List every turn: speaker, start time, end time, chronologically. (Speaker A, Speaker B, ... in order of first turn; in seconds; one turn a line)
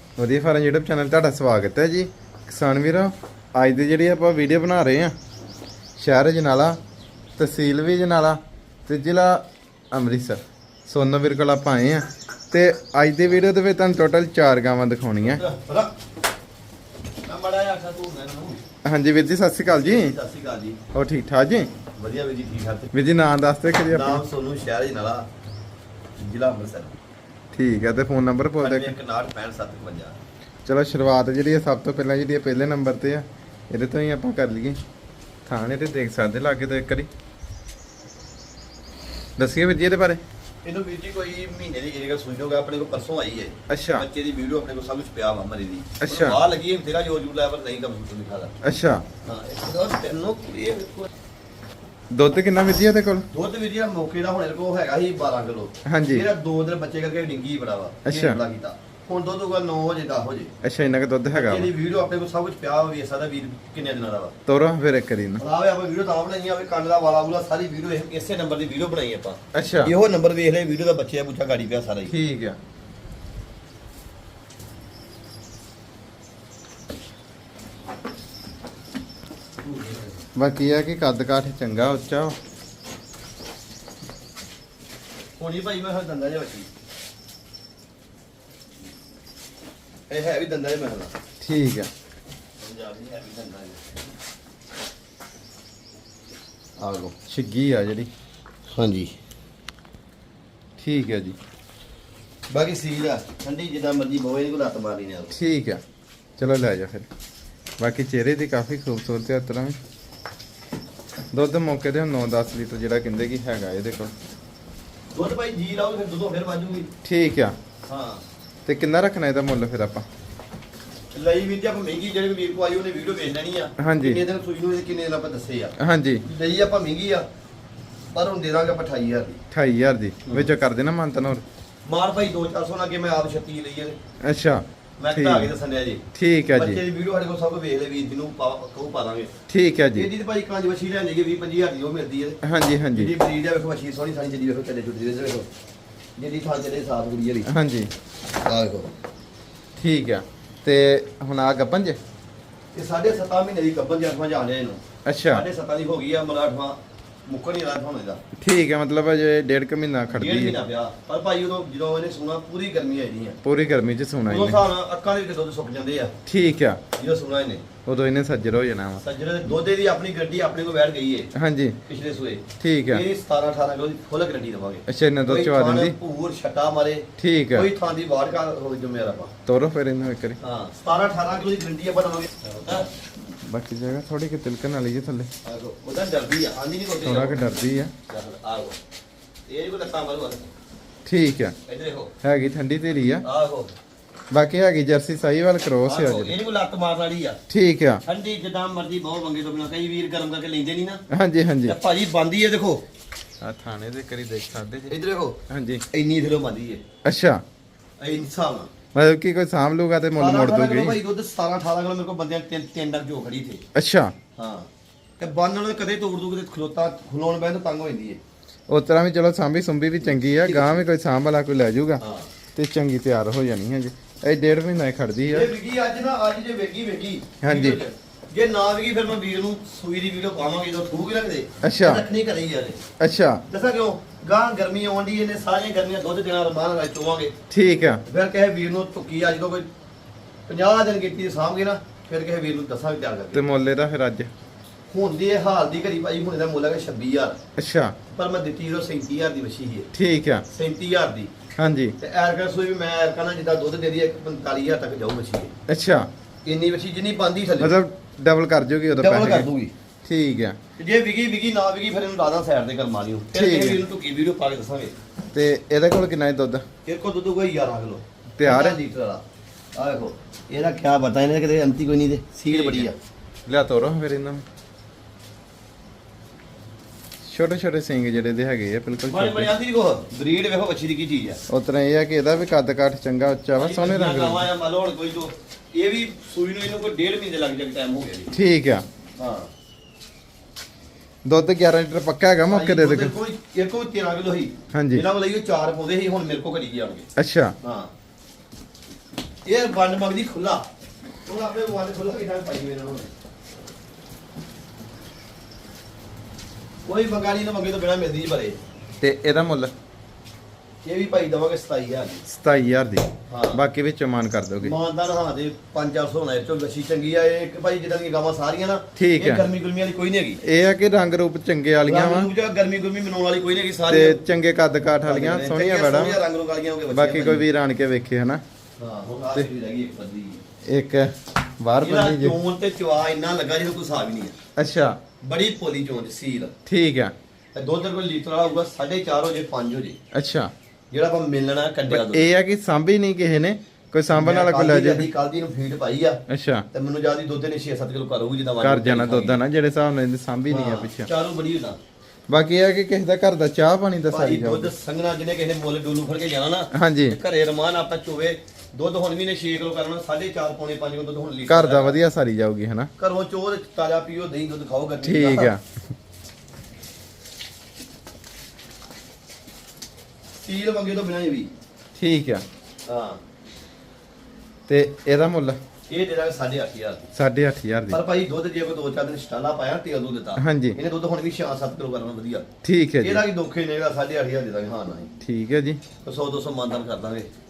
Speaker A: 0.2-5.1
Speaker A: 6.0-6.8
Speaker A: 7.4-15.4
Speaker B: 15.2-15.9
Speaker B: 17.2-18.6
Speaker A: 18.8-20.1
Speaker B: 19.7-20.8
Speaker A: 20.9-21.7
Speaker B: 22.0-22.9
Speaker A: 22.9-24.2
Speaker B: 23.9-25.3
Speaker B: 26.2-26.9
Speaker A: 27.5-28.9
Speaker B: 28.6-30.2
Speaker A: 30.6-34.8
Speaker A: 35.5-37.1
Speaker A: 39.4-40.2
Speaker B: 40.6-48.5
Speaker A: 43.7-44.0
Speaker A: 46.0-46.4
Speaker A: 48.6-49.0
Speaker B: 49.2-51.1
Speaker A: 52.1-53.3
Speaker B: 53.3-60.5
Speaker A: 55.9-56.3
Speaker A: 58.0-58.4
Speaker A: 60.6-61.7
Speaker B: 61.3-64.3
Speaker A: 64.5-65.4
Speaker B: 65.4-72.1
Speaker A: 69.5-69.9
Speaker A: 72.1-72.6
Speaker B: 79.6-80.2
Speaker A: 80.4-82.4
Speaker B: 85.4-86.7
Speaker B: 90.1-91.1
Speaker A: 91.4-91.9
Speaker B: 92.6-94.0
Speaker B: 96.8-97.1
Speaker A: 97.3-98.1
Speaker B: 98.7-99.1
Speaker A: 100.8-101.4
Speaker B: 102.5-105.3
Speaker A: 105.3-105.8
Speaker A: 106.4-107.1
Speaker A: 107.8-109.8
Speaker A: 111.3-114.1
Speaker B: 115.1-116.9
Speaker A: 117.0-117.6
Speaker B: 117.9-118.2
Speaker A: 118.7-120.1
Speaker B: 121.1-127.3
Speaker A: 123.8-124.2
Speaker A: 125.8-126.2
Speaker B: 128.1-129.4
Speaker A: 129.5-131.4
Speaker B: 131.8-134.0
Speaker A: 134.2-135.5
Speaker B: 135.0-136.0
Speaker A: 136.1-136.8
Speaker B: 136.6-139.3
Speaker A: 139.5-140.1
Speaker B: 139.9-142.4
Speaker A: 142.4-143.1
Speaker B: 142.9-145.5
Speaker B: 146.2-147.5
Speaker A: 147.5-147.9
Speaker B: 148.4-148.9
Speaker A: 149.8-152.0
Speaker B: 152.7-158.2
Speaker A: 155.1-155.4
Speaker A: 158.4-160.6
Speaker B: 160.1-163.4
Speaker A: 163.4-164.6
Speaker B: 164.2-166.1
Speaker A: 166.2-166.8
Speaker B: 167.0-167.7
Speaker A: 167.8-169.0
Speaker B: 169.0-171.3
Speaker A: 171.3-171.8
Speaker B: 171.9-179.3
Speaker A: 172.6-173.1
Speaker A: 174.9-176.0
Speaker A: 177.2-177.7
Speaker A: 179.5-180.4
Speaker B: 180.4-182.9
Speaker A: 183.4-185.3
Speaker B: 185.4-188.8
Speaker A: 187.0-187.9
Speaker B: 189.5-190.5
Speaker A: 191.1-191.6
Speaker B: 191.7-192.1
Speaker A: 192.2-193.2
Speaker B: 193.2-193.8
Speaker A: 194.3-196.3
Speaker B: 195.8-197.4
Speaker A: 197.5-198.0
Speaker B: 198.0-201.0
Speaker A: 201.1-201.8
Speaker B: 201.7-202.8
Speaker A: 203.4-205.0
Speaker B: 204.9-205.4
Speaker A: 205.5-205.8
Speaker B: 205.9-206.8
Speaker A: 207.1-207.4
Speaker B: 208.0-208.7
Speaker A: 208.9-211.0
Speaker B: 210.2-213.6
Speaker A: 213.8-214.1
Speaker B: 214.4-218.2
Speaker A: 218.7-222.0
Speaker B: 220.0-220.8
Speaker B: 222.0-222.3
Speaker A: 222.6-225.5
Speaker B: 225.3-232.8
Speaker A: 227.4-227.8
Speaker A: 231.6-232.1
Speaker A: 233.0-233.4
Speaker B: 233.5-237.3
Speaker A: 237.5-238.0
Speaker B: 238.1-239.7
Speaker B: 240.5-243.4
Speaker A: 243.3-244.3
Speaker B: 244.9-247.4
Speaker A: 247.6-248.0
Speaker B: 248.1-249.9
Speaker A: 249.9-250.4
Speaker B: 250.5-251.3
Speaker A: 251.6-252.0
Speaker B: 252.0-255.5
Speaker A: 255.7-256.1
Speaker B: 256.4-257.8
Speaker A: 257.6-259.5
Speaker B: 259.0-259.7
Speaker A: 260.1-260.6
Speaker B: 260.8-264.9
Speaker A: 263.3-263.8
Speaker A: 265.3-266.6
Speaker B: 266.9-269.2
Speaker A: 268.4-268.8
Speaker B: 269.8-272.9
Speaker A: 272.5-272.9
Speaker A: 273.4-274.4
Speaker A: 277.2-279.5
Speaker B: 279.1-281.4
Speaker A: 281.5-284.5
Speaker B: 283.6-288.3
Speaker A: 288.3-288.9
Speaker B: 289.2-289.5
Speaker A: 291.2-293.1
Speaker B: 292.5-297.1
Speaker A: 294.7-295.1
Speaker A: 297.2-297.6
Speaker B: 297.6-297.9
Speaker B: 299.4-300.7
Speaker B: 301.2-303.1
Speaker B: 306.9-308.6
Speaker A: 309.0-309.7
Speaker B: 310.8-312.2
Speaker A: 312.3-314.8
Speaker B: 313.3-313.6
Speaker B: 314.6-320.4
Speaker A: 319.0-319.5
Speaker A: 320.4-322.3
Speaker B: 321.8-324.2
Speaker A: 323.9-326.2
Speaker B: 325.1-327.4
Speaker A: 326.9-328.4
Speaker B: 328.8-330.4
Speaker A: 330.7-332.4
Speaker B: 331.8-334.4
Speaker A: 334.6-335.0
Speaker B: 335.2-336.5
Speaker A: 336.7-337.1
Speaker B: 337.6-340.0
Speaker A: 340.1-340.5
Speaker B: 340.9-342.3
Speaker A: 341.9-345.1
Speaker B: 344.1-346.2
Speaker A: 346.3-346.7
Speaker B: 346.7-349.4
Speaker A: 348.6-351.1
Speaker B: 350.5-351.8
Speaker A: 352.3-354.7
Speaker B: 354.1-362.0
Speaker A: 356.7-357.2
Speaker A: 361.5-362.9
Speaker B: 363.0-365.5
Speaker A: 365.0-365.8
Speaker B: 370.3-371.5
Speaker A: 372.0-372.4
Speaker B: 372.9-373.2
Speaker A: 374.7-375.6
Speaker B: 375.9-377.1
Speaker A: 377.1-378.0
Speaker B: 377.9-382.5
Speaker A: 380.4-380.8
Speaker A: 382.6-383.2
Speaker B: 383.0-385.1
Speaker A: 385.2-385.8
Speaker B: 386.0-387.3